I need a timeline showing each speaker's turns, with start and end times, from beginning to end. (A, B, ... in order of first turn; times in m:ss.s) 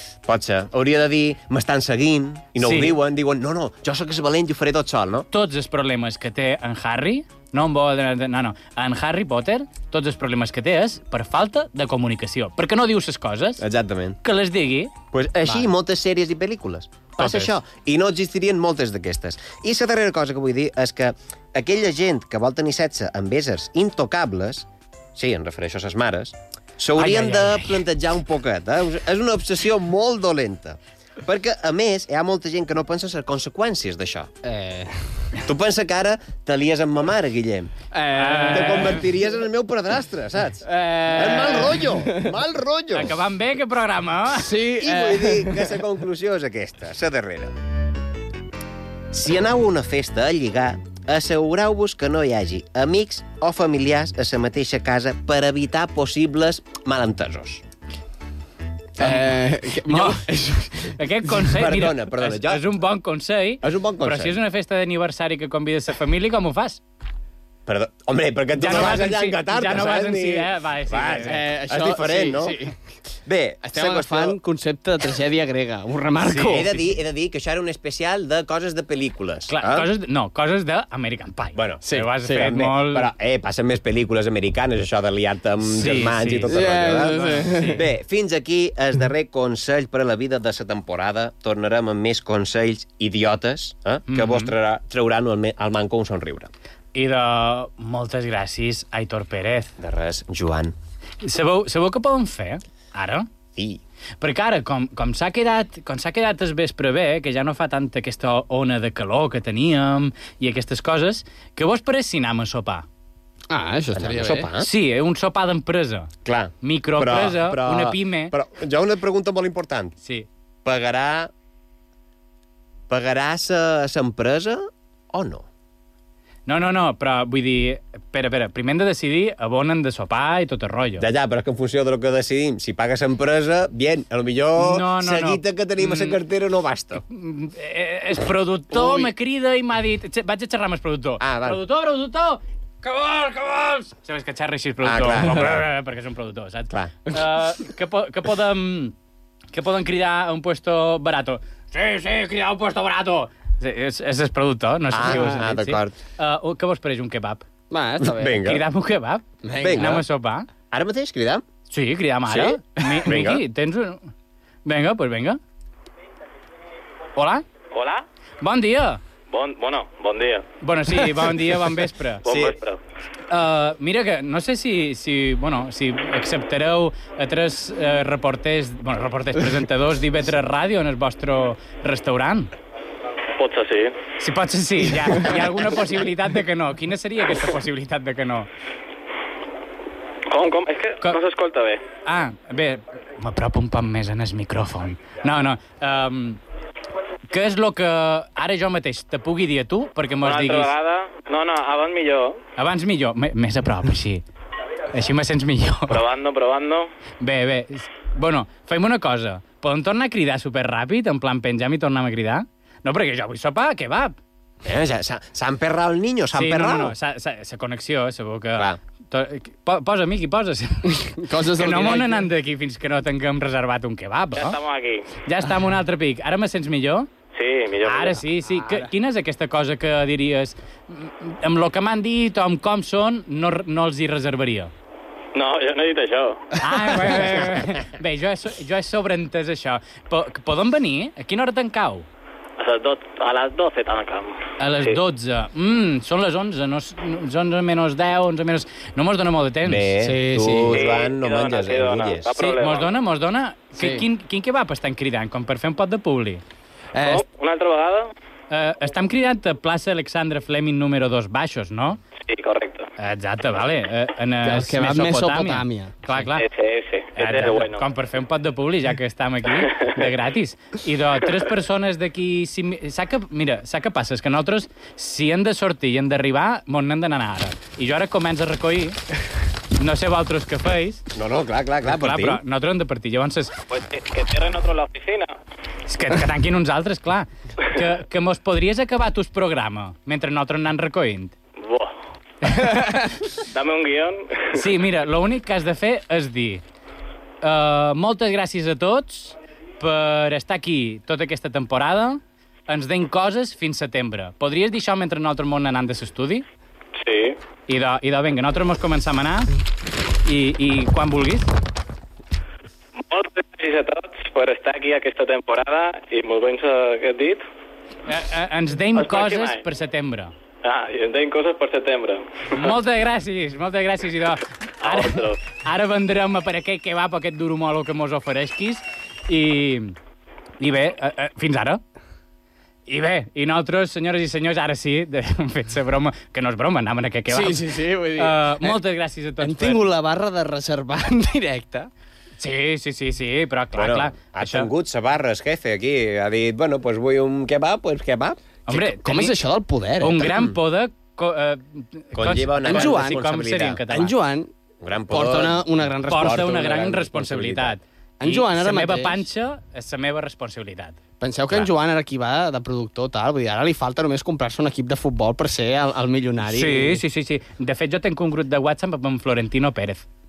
0:00.3-0:05.3 A
0:02.6-0:03.0 B
0:05.3-0:13.6 B
0:13.6-0:14.2 A
0:14.2-0:14.9 B
0:15.1-0:34.3 A
0:17.2-0:17.5 B
0:27.0-0:27.8 B
0:34.4-0:35.2 C
0:35.4-0:37.7 A
0:37.9-0:39.0 C
0:38.1-0:39.0 B
0:38.5-0:43.1 A
0:40.6-0:42.3 C
0:41.1-0:41.6 B
0:42.9-0:44.5 B
0:44.3-0:45.8 C
0:44.8-0:47.5 A
0:49.1-0:57.6 A
0:59.0-1:01.0 C
0:59.0-1:00.2 B
1:00.9-1:06.8 B
1:01.5-1:02.6 A
1:03.6-1:04.4 A
1:07.7-1:12.6 A
1:08.6-1:11.4 B
1:11.2-1:12.8 C
1:13.2-1:14.4 A
1:13.6-1:16.8 C
1:16.2-1:16.6 B
1:16.5-1:19.9 A
1:19.5-1:23.1 B
1:21.6-1:36.5 A
1:21.8-1:22.5 C
1:25.6-1:27.8 B
1:26.5-1:27.8 C
1:34.1-1:34.5 B
1:36.9-1:39.7 B
1:39.8-1:40.8 A
1:41.2-1:43.3 B
1:43.6-1:43.8 A
1:44.2-1:52.8 B
1:53.5-1:54.5 C
1:53.9-1:54.7 A
1:54.6-1:56.1 B
1:56.2-2:00.0 A
1:56.6-1:58.3 B
2:00.0-2:00.3 B
2:00.6-2:01.3 A
2:02.9-2:05.4 A
2:06.4-2:11.0 B
2:11.0-2:17.0 A
2:14.6-2:16.2 B
2:17.1-2:28.9 B
2:18.7-2:19.1 A
2:21.2-2:21.6 A
2:24.8-2:25.6 A
2:29.5-2:37.4 B
2:34.9-2:36.0 A
2:35.0-2:35.4 C
2:37.7-2:38.4 C
2:38.0-2:38.6 A
2:38.4-2:40.5 B
2:39.4-2:40.0 C
2:39.6-2:40.0 A
2:40.7-2:41.4 A
2:41.7-2:44.1 B
2:42.3-2:43.4 A
2:44.6-2:45.4 B
2:47.2-2:47.4 B
2:47.7-2:48.0 D
2:48.4-2:49.0 B
2:49.3-2:50.4 D
2:50.6-2:52.2 B
2:52.2-2:52.8 D
2:52.3-2:52.6 A
2:53.3-3:02.5 B
3:03.4-3:04.0 D
3:04.2-3:08.5 B
3:10.3-3:11.8 D
3:12.0-3:16.4 B
3:17.3-3:20.7 B
3:20.2-3:22.4 D
3:22.6-3:24.2 B
3:24.9-3:26.0 B
3:25.9-3:26.9 D
3:27.2-3:34.1 B
3:34.6-3:36.9 A
3:36.3-3:44.6 B
3:40.9-3:42.3 C
3:44.3-3:45.1 D
3:45.2-3:47.1 B
3:47.3-3:48.2 D
3:47.8-3:54.7 B
3:48.6-3:48.9 C
3:55.3-3:56.5 D
3:56.6-4:02.1 B
4:02.6-4:05.0 D
4:04.6-4:09.9 B
4:09.6-4:12.3 A
4:10.0-4:10.8 C
4:10.7-4:13.0 D
4:12.3-4:16.4 B
4:13.7-4:14.0 C
4:16.9-4:17.2 C
4:17.0-4:18.1 D
4:18.5-4:22.0 B
4:22.2-4:22.9 D
4:23.0-4:26.5 B
4:24.4-4:26.3 C
4:26.3-4:27.8 D
4:27.2-4:39.0 B
4:29.6-4:30.0 D
4:39.8-4:41.0 B
4:41.1-4:42.4 A
4:41.9-4:43.5 B
4:43.7-4:45.3 D
4:45.9-4:51.3 B
4:51.6-4:51.9 D
4:52.4-4:52.8 B
4:53.5-4:54.7 D
4:54.5-4:56.6 B
4:57.4-5:06.4 B
5:07.0-5:07.4 D
5:07.7-5:09.5 B
5:10.2-5:11.5 B
5:13.0-5:17.4 D
5:18.0-5:20.3 B
5:18.9-5:19.6 D
5:20.6-5:22.7 D
5:22.6-5:30.0 B
5:24.8-5:25.4 D
5:30.6-5:31.8 B
5:32.8-5:39.8 B
5:37.3-5:38.8 C
5:39.4-5:41.9 C
5:42.4-5:44.7 B
5:43.7-5:48.4 A
5:48.7-5:49.3 B
5:48.7-5:50.3 C
5:50.0-5:54.1 B
5:50.2-5:50.5 A
5:52.1-5:54.0 A
5:52.6-5:53.3 C
5:53.9-5:54.5 C
5:54.8-5:57.8 A
5:55.1-5:57.0 C
5:56.1-6:01.0 B
5:58.2-5:59.2 C
6:01.2-6:07.0 C
6:06.5-6:10.0 B